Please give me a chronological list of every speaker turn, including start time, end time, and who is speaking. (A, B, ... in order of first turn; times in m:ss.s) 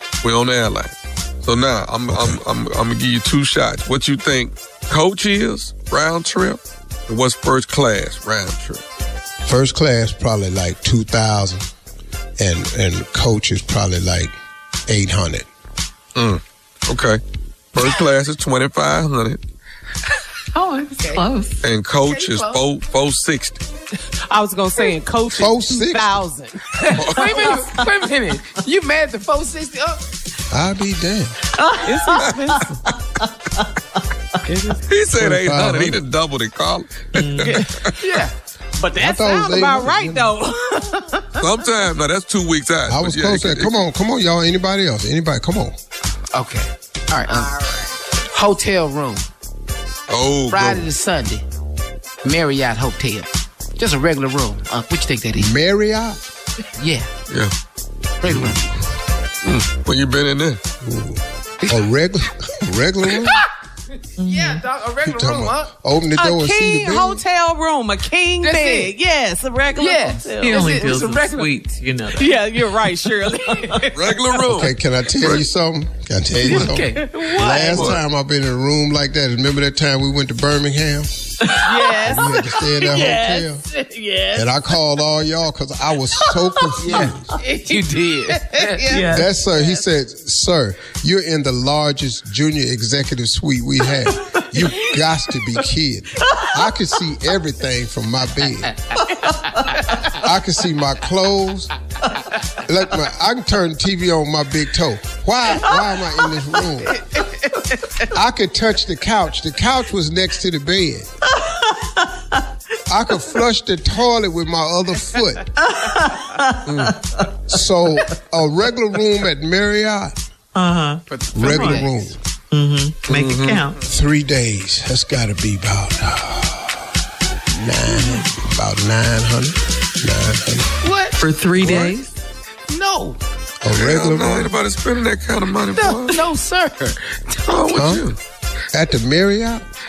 0:00.2-0:08.8 A
0:02.1-0:02.4 B
0:09.5-0:11.6 B
0:12.4-0:14.3 B
0:14.9-0:15.5 B
0:16.2-0:17.2 A
0:17.7-0:19.4 A
0:20.5-0:21.6 C
0:21.6-0:23.6 A
0:22.1-0:22.6 D
0:24.3-0:26.7 E
0:25.3-0:26.2 B
0:26.7-0:30.0 D
0:26.9-0:27.3 A
0:27.2-0:27.9 C
0:30.5-0:31.4 B
0:31.6-0:32.7 C
0:31.8-0:32.7 E
0:32.2-0:32.5 A
0:34.5-0:34.8 E
0:34.9-0:38.2 A
0:35.2-0:36.0 B
0:37.1-0:37.6 C
0:38.0-0:38.3 D
0:38.8-0:41.4 E
0:39.0-0:40.4 B
0:41.4-0:43.8 A
0:42.9-0:45.8 B
0:46.3-0:47.5 D
0:47.3-0:47.9 E
0:48.3-0:49.2 D
0:50.1-0:50.9 A
0:50.5-0:51.4 D
0:52.2-0:55.5 D
0:55.4-0:56.2 B
0:56.8-0:57.1 D
0:58.2-0:58.6 D
0:58.3-0:58.5 A
0:59.4-1:00.6 A
1:00.8-1:03.4 B
1:04.2-1:04.6 C
1:04.2-1:05.7 D
1:05.0-1:07.2 B
1:06.2-1:11.5 E
1:08.4-1:08.9 D
1:09.8-1:11.3 D
1:10.4-1:13.1 C
1:12.2-1:14.1 E
1:13.9-1:15.4 A
1:14.4-1:23.7 B
1:16.4-1:17.9 E
1:16.4-1:17.1 D
1:17.7-1:18.0 A
1:21.7-1:24.5 E
1:24.4-1:27.4 B
1:26.8-1:29.8 E
1:27.7-1:28.7 D
1:28.9-1:29.3 C
1:29.1-1:38.8 B
1:40.0-1:41.7 B
1:42.6-1:47.0 B
1:48.1-1:51.1 B
1:51.5-1:52.4 C
1:52.9-1:55.5 B
1:55.7-1:56.6 C
1:56.6-1:57.0 A
1:57.5-2:00.2 B
2:00.6-2:01.9 C
2:01.1-2:02.1 D
2:01.4-2:02.2 B
2:02.5-2:03.8 C
2:03.1-2:03.6 A
2:03.8-2:06.8 B
2:07.5-2:10.7 B
2:10.8-2:12.0 D
2:11.2-2:12.1 C
2:12.7-2:13.2 D
2:13.6-2:14.5 B
2:13.7-2:16.3 A
2:15.7-2:17.8 D
2:17.5-2:18.2 A
2:17.8-2:18.0 B
2:18.7-2:19.6 B